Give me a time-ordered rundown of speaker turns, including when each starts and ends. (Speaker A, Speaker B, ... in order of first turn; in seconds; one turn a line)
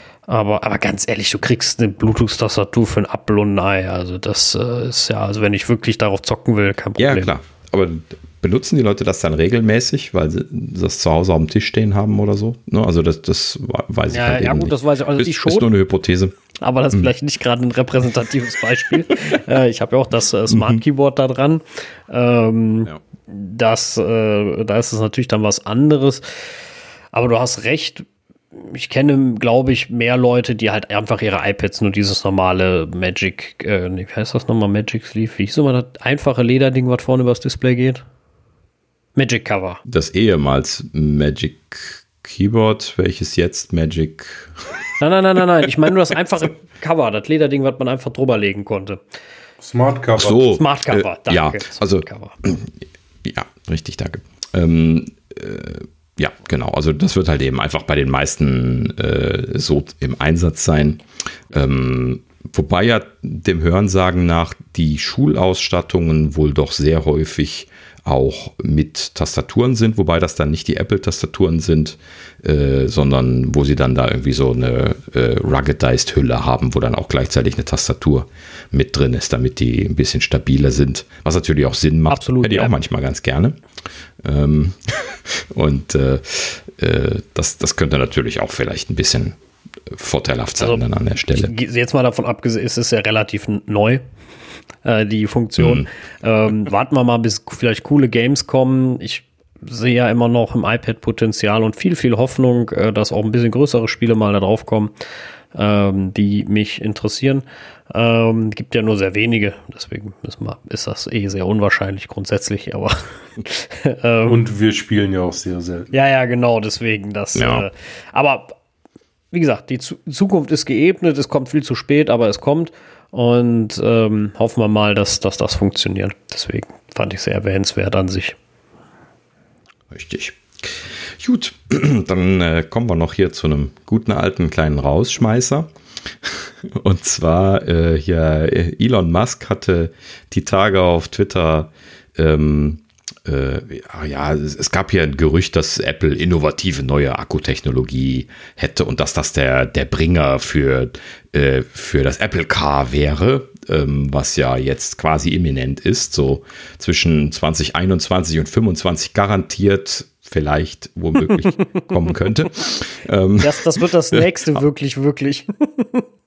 Speaker A: 0.3-7.3
Speaker B: 7.0-16.3
Speaker A: 14.1-15.7
Speaker A: 16.6-26.2
Speaker B: 20.5-20.8
Speaker A: 27.1-38.0
Speaker A: 39.1-39.8
Speaker B: 39.9-44.8
Speaker A: 45.0-49.0
Speaker C: 49.6-50.4
Speaker B: 50.2-52.7
Speaker A: 50.4-52.3
Speaker B: 53.2-83.5
Speaker A: 82.1-82.7
Speaker B: 84.2-89.4
Speaker B: 89.9-91.5
Speaker A: 91.3-94.0
Speaker A: 94.8-104.9
Speaker B: 95.6-95.9
Speaker A: 105.5-114.4
Speaker C: 114.3-115.9
Speaker A: 115.9-118.5
Speaker B: 117.3-117.7
Speaker A: 119.3-128.3
Speaker B: 129.9-135.7
Speaker B: 136.2-164.6
Speaker A: 163.4-166.1